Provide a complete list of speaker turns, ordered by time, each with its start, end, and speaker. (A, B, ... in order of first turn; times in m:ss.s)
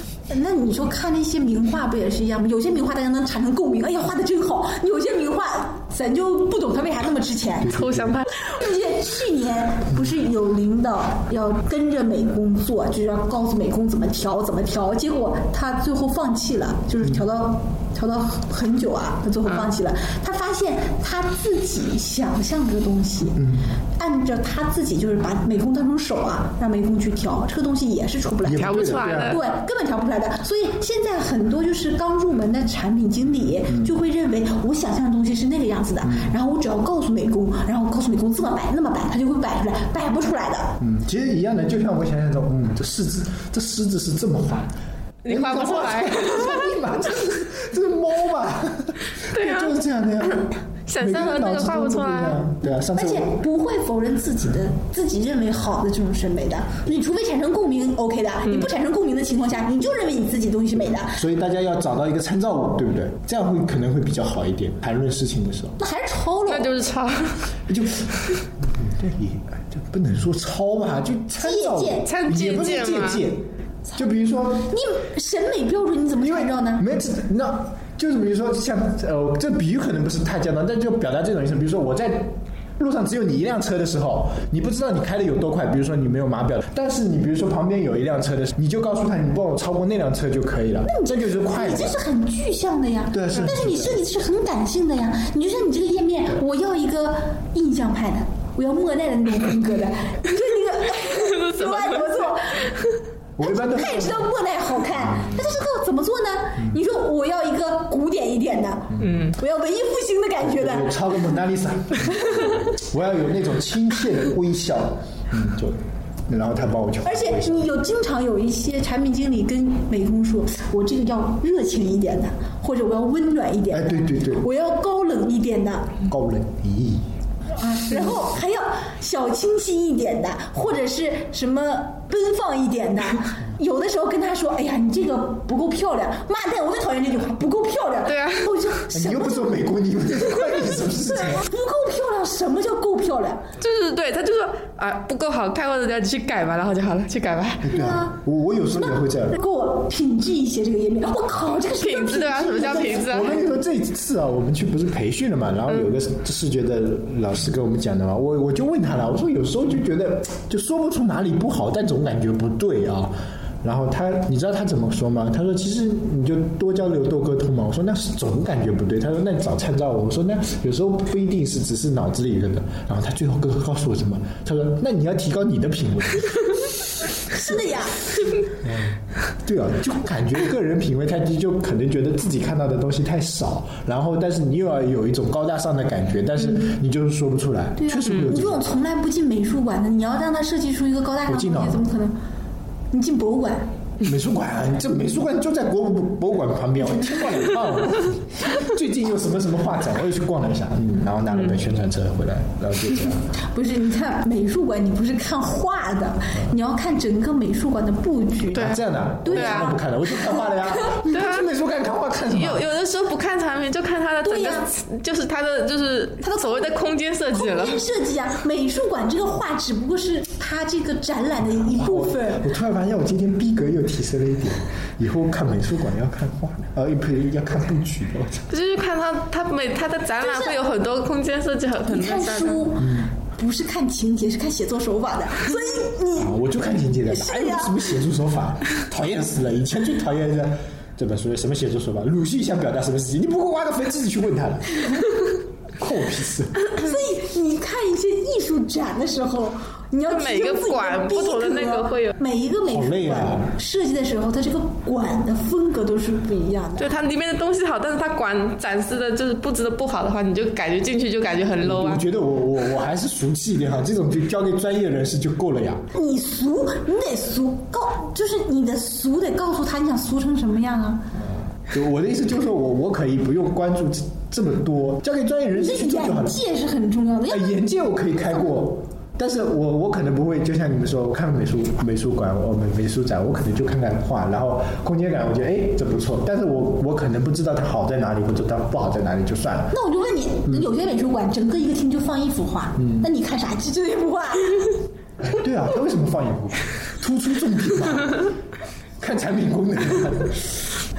0:00.3-0:23.4 A
0:07.6-0:08.2 B
0:07.7-0:08.3 C
0:23.4-0:23.7 B
0:24.0-0:40.8 A
0:28.4-0:29.4 B
0:28.4-0:29.4 C
0:33.6-0:33.9 B
0:36.0-0:36.3 B
0:40.8-0:44.7 B
0:45.2-0:46.8 C
0:45.2-0:53.4 B
0:49.2-0:52.4 C
0:52.9-1:01.2 A
1:01.1-1:05.8 B
1:05.8-1:06.7 A
1:06.5-1:07.4 C
1:07.7-1:14.7 B
1:11.4-1:12.1 A
1:12.0-1:13.3 C
1:13.9-1:16.8 A
1:16.2-1:32.0 B
1:30.8-1:42.8 A
1:33.1-1:34.0 B
1:41.4-1:42.0 C
1:43.4-1:44.3 B
1:43.4-1:51.0 A
1:45.1-1:45.4 B
1:48.9-1:49.2 B
1:49.0-1:49.4 C
1:50.4-1:57.7 B
1:52.2-1:52.5 A
1:57.0-2:06.0 A
2:03.7-2:04.4 B
2:06.1-2:07.1 B
2:07.5-2:19.6 A
2:18.1-2:18.5 C
2:18.9-2:21.5 B
2:20.6-2:23.4 A
2:23.6-2:27.7 C
2:27.6-2:29.4 B
2:27.7-2:28.2 A
2:29.3-2:33.1 A
2:31.4-2:33.4 C
2:32.5-2:56.3 B
2:57.2-2:58.0 A
2:58.6-3:08.7 B
3:07.8-3:12.1 A
3:11.3-3:11.8 B
3:12.9-3:13.7 A
3:14.0-3:23.2 B
3:23.4-3:29.8 A
3:28.5-3:29.7 C
3:28.5-3:32.7 B
3:30.4-3:31.0 A
3:31.0-3:31.5 C
3:32.3-3:37.8 C
3:34.2-3:34.7 A
3:37.3-3:42.4 A
3:41.5-3:48.5 B
3:48.5-3:52.7 C
3:50.2-3:50.6 A
3:51.9-3:56.3 A
3:52.8-3:53.1 B
3:56.2-4:06.7 B
3:57.1-3:57.9 A
4:06.7-4:16.9 A
4:10.1-4:12.2 C
4:12.6-4:13.5 B
4:16.8-4:22.0 C
4:21.6-4:25.8 B
4:25.9-4:31.0 A
4:31.6-4:36.4 B
4:35.5-4:37.6 A
4:37.3-4:49.7 B
4:49.7-4:54.8 A
4:55.2-4:58.3 B
4:59.0-5:00.6 B